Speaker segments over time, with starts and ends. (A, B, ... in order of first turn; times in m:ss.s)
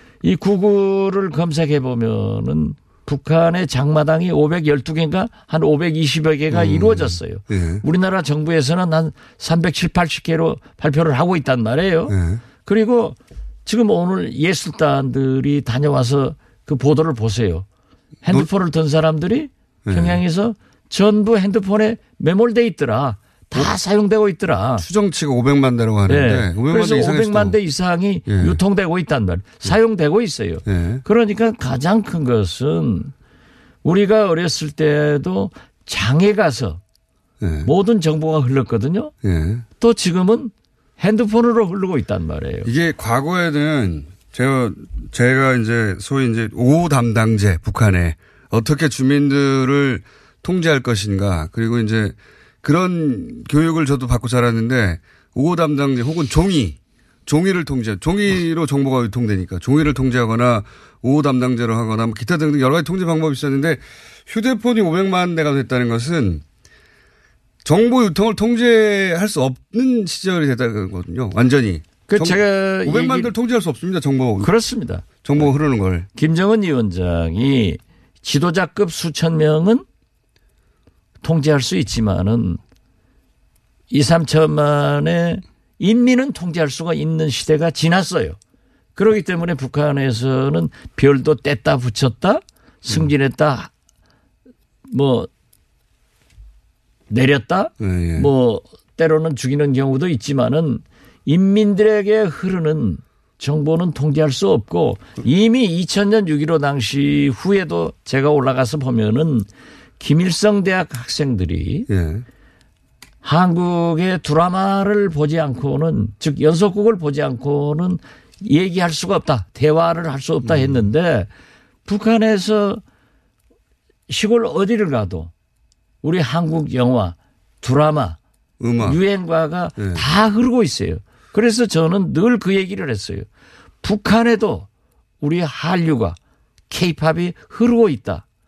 0:00.2-0:17.6 A
0:06.5-0:07.8 B
0:12.1-0:12.4 B
0:18.2-0:24.8 A
0:19.8-0:20.2 B
0:24.8-0:27.6 B
0:26.1-0:33.1 A
0:28.3-0:28.6 B
0:30.6-0:31.0 B
0:33.8-0:36.8 A
0:37.4-0:37.7 B
0:37.6-0:39.1 A
0:39.2-0:39.6 B
0:39.8-0:42.7 A
0:42.6-1:06.4 B
1:07.6-1:14.5 B
1:12.1-1:13.3 A
1:14.4-1:15.5 A
1:15.2-1:16.1 B
1:16.1-1:19.8 A
1:21.2-1:22.6 A
1:23.9-1:28.4 A
1:29.0-1:33.7 A
1:34.9-1:35.3 A
1:37.1-1:49.5 A
1:37.8-1:38.3 B
1:50.0-1:51.9 A
1:51.9-1:52.2 B
1:53.2-2:01.3 A
2:00.4-2:00.8 B
2:01.8-2:02.8 A
2:04.1-2:05.3 A
2:06.0-2:08.2 A
2:08.6-2:09.0 B
2:08.8-2:13.3 A
2:09.8-2:10.0 B
2:13.8-2:14.7 A
2:15.2-2:16.2 A
2:16.7-2:18.2 A